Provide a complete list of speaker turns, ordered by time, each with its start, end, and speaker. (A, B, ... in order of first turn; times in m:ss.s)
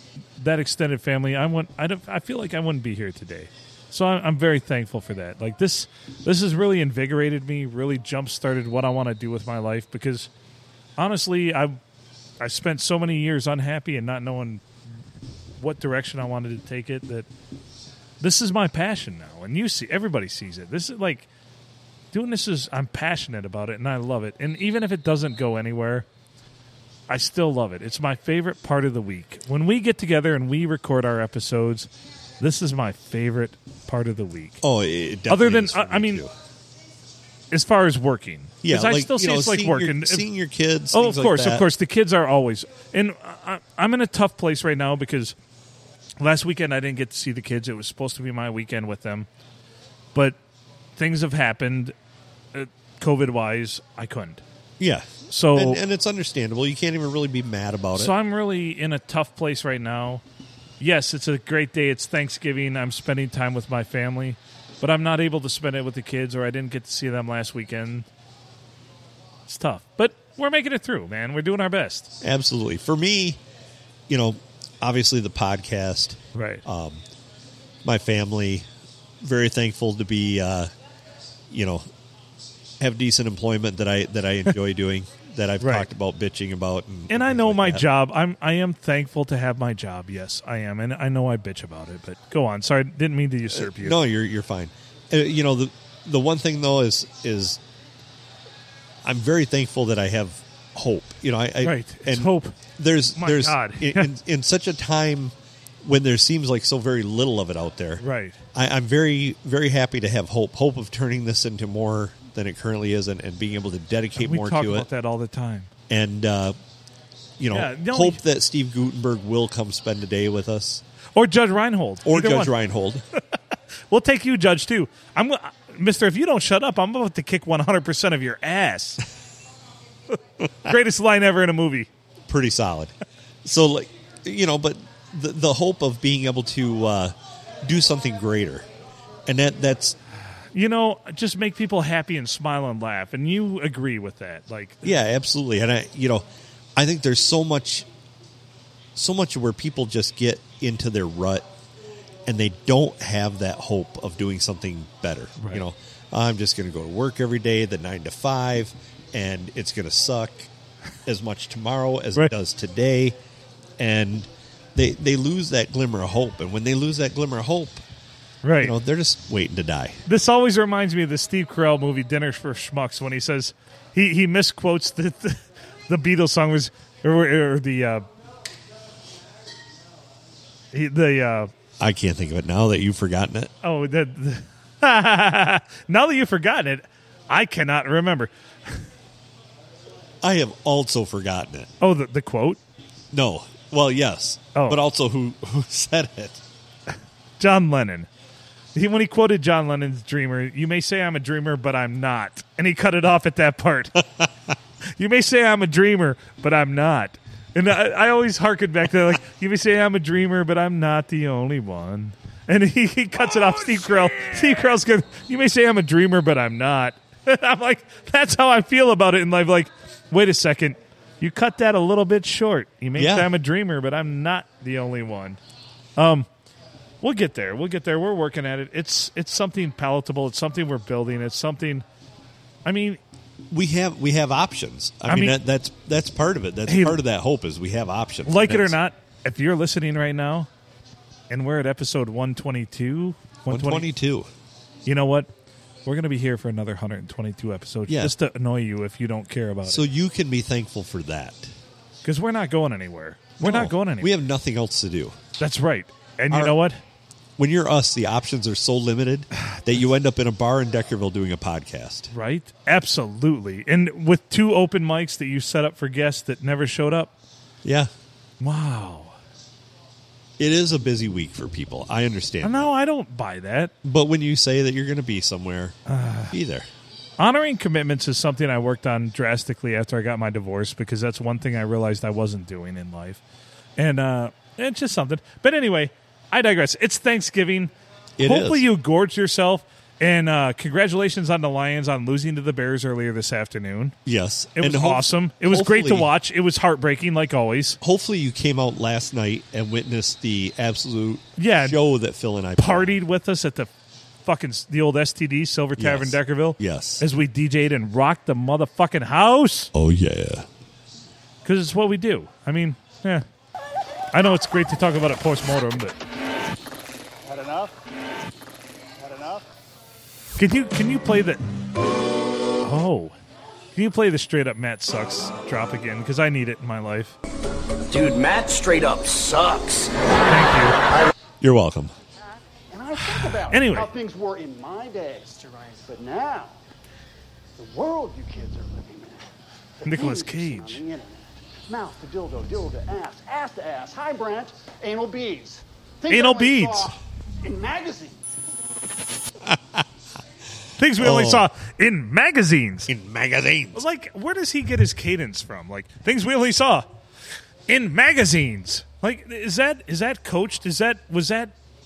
0:00.4-0:10.3 A
0:11.0-0:11.8 A
0:12.4-0:14.6 A
0:15.6-0:17.3 A
0:18.2-0:21.3 A
0:22.1-0:26.1 A
0:27.1-0:31.9 A
0:32.4-0:34.6 A
0:34.6-0:36.3 B
0:35.3-0:36.2 A
0:37.5-0:40.3 A
0:38.6-0:41.7 B
0:40.9-0:45.4 A
0:46.2-0:49.3 A
0:51.0-0:52.0 A
0:52.5-0:54.4 A
0:54.8-0:58.1 B
0:55.3-0:55.8 A
0:58.0-1:00.2 A
1:00.8-1:08.1 A
1:09.5-1:12.1 A
1:12.2-1:13.4 B
1:14.1-1:17.0 B
1:16.4-1:16.6 A
1:17.8-1:18.6 B
1:19.2-1:20.7 B
1:21.5-1:21.9 B
1:22.8-1:27.8 B
1:25.6-1:25.9 A
1:27.1-1:34.0 A
1:33.5-1:37.6 B
1:39.0-1:48.0 B
1:41.6-1:42.6 A
1:43.2-1:44.1 A
1:48.0-1:48.4 A
1:48.5-1:54.9 B
1:54.2-1:55.7 A
1:55.9-1:56.6 B
1:57.4-2:00.8 B
1:57.5-1:58.2 A
2:01.2-2:02.5 A
2:02.0-2:03.0 B
2:03.9-2:09.0 A
2:10.6-2:11.9 A
2:12.3-2:12.9 B
2:13.4-2:18.7 B
2:19.3-2:20.0 B
2:20.5-2:25.0 A
2:24.8-2:26.2 B
2:26.8-2:27.9 B
2:29.0-2:31.5 B
2:32.3-2:40.5 B
2:35.4-2:35.6 A
2:41.1-2:43.2 B
2:43.8-2:47.8 B
2:48.4-2:48.8 A
2:48.6-2:50.0 B
2:50.1-2:58.0 A
3:00.7-3:01.5 A
3:01.8-3:03.5 B
3:03.6-3:08.8 A
3:10.2-3:11.7 B
3:11.8-3:12.6 A
3:13.1-3:16.4 B
3:14.5-3:14.8 A
3:17.4-3:18.1 A
3:18.8-3:24.0 A
3:25.0-3:45.4 A
3:43.0-3:43.3 B
3:46.0-3:46.3 A
3:47.0-3:51.8 A
3:52.6-3:53.0 A
3:53.5-3:58.8 B
3:55.1-3:55.4 A
3:56.7-3:57.0 A
3:58.3-4:00.5 A
4:01.3-4:03.9 A
4:03.5-4:04.3 B
4:04.9-4:05.3 A
4:05.8-4:09.8 A
4:07.9-4:08.2 B
4:09.6-4:11.5 B
4:12.0-4:14.1 A
4:13.4-4:15.2 B
4:15.4-4:16.8 A
4:16.3-4:16.6 B
4:17.4-4:22.1 B
4:22.1-4:27.1 A
4:27.6-4:27.9 B
4:28.4-4:29.2 A
4:30.4-4:32.7 B
4:32.4-4:33.7 A
4:33.8-4:35.8 B
4:35.9-4:36.4 A
4:36.3-4:36.7 B
4:37.2-4:43.2 A
4:43.8-4:54.0 A
4:48.2-4:48.7 B
4:54.1-4:56.1 B
4:54.6-4:57.8 A
4:57.8-5:03.0 B
5:01.4-5:01.8 A
5:02.6-5:03.7 A
5:04.2-5:09.7 A
5:05.8-5:07.0 B
5:09.7-5:10.5 B
5:11.4-5:13.2 A
5:14.1-5:16.0 A
5:17.2-5:17.8 C
5:19.0-5:19.5 C
5:20.4-5:21.4 A
5:22.6-5:23.2 A
5:23.8-5:27.2 A
5:27.9-5:29.9 D
5:30.3-5:30.8 A
5:31.4-5:31.9 B
5:32.7-5:36.6 C
5:33.5-5:33.9 A
5:37.6-5:39.3 C
5:39.8-5:48.2 C
5:39.8-5:40.8 A
5:46.1-5:46.9 A
5:49.4-5:49.8 B
5:50.8-5:52.9 A
5:51.0-5:51.5 B
5:52.9-5:53.8 B
5:53.7-5:56.9 A
5:57.7-6:01.5 A